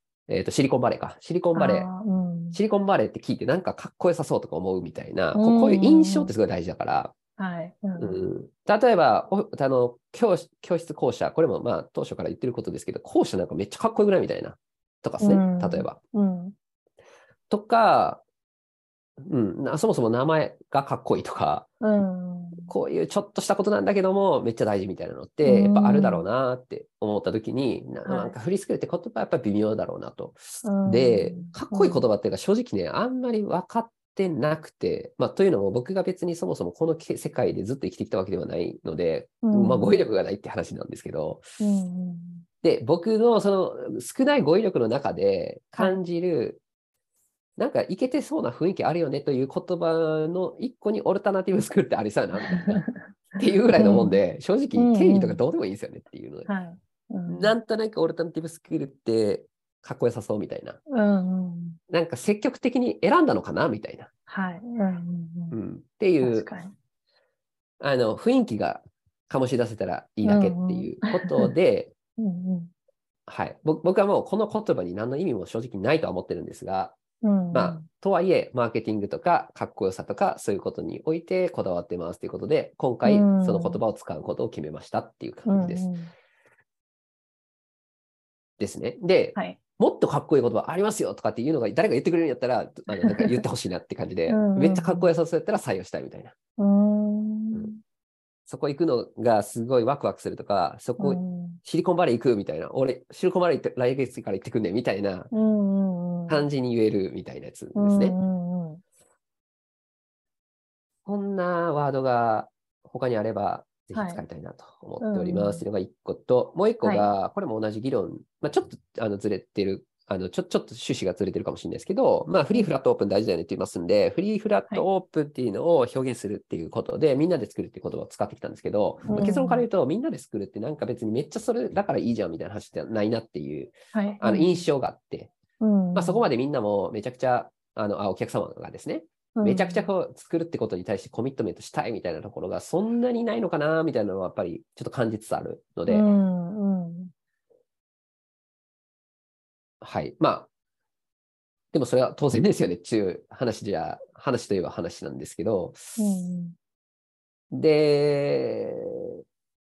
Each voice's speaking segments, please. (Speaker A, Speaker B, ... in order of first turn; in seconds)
Speaker A: 0.3-1.9, 2.5-7.2, 8.0-16.0, 17.5-18.2, 19.2-21.7, 22.7-41.5, 42.6-46.6, 47.6-52.8, 53.4-56.5, 57.3-60.8, 61.9-64.1, 65.5-66.5, 67.8-71.9, 73.3-77.0, 77.5-85.9, 88.6-96.3, 98.5-105.3, 106.3-108.2, 111.0-135.3, 135.9-146.1, 149.8-150.5, 151.7-156.0, 157.5-159.2
Speaker B: 1.5-2.6, 5.3-6.3, 7.4-8.2, 15.2-16.5, 21.8-22.7, 25.4-26.2, 28.0-28.3, 30.6-32.0, 39.4-40.0, 41.6-42.5, 52.4-52.9, 53.7-54.2, 54.7-55.4, 56.5-57.5, 60.9-61.8, 64.3-65.6, 66.2-66.7, 70.2-71.5, 72.2-72.7, 77.2-77.9, 83.0-83.8, 85.5-86.1, 92.9-93.4, 94.3-95.1, 96.6-97.8, 101.0-101.6, 105.3-106.5, 107.7-108.8, 113.9-114.2, 115.0-115.6, 129.1-129.6, 133.9-134.7, 135.6-136.2, 139.3-139.9, 145.9-147.1, 156.0-156.6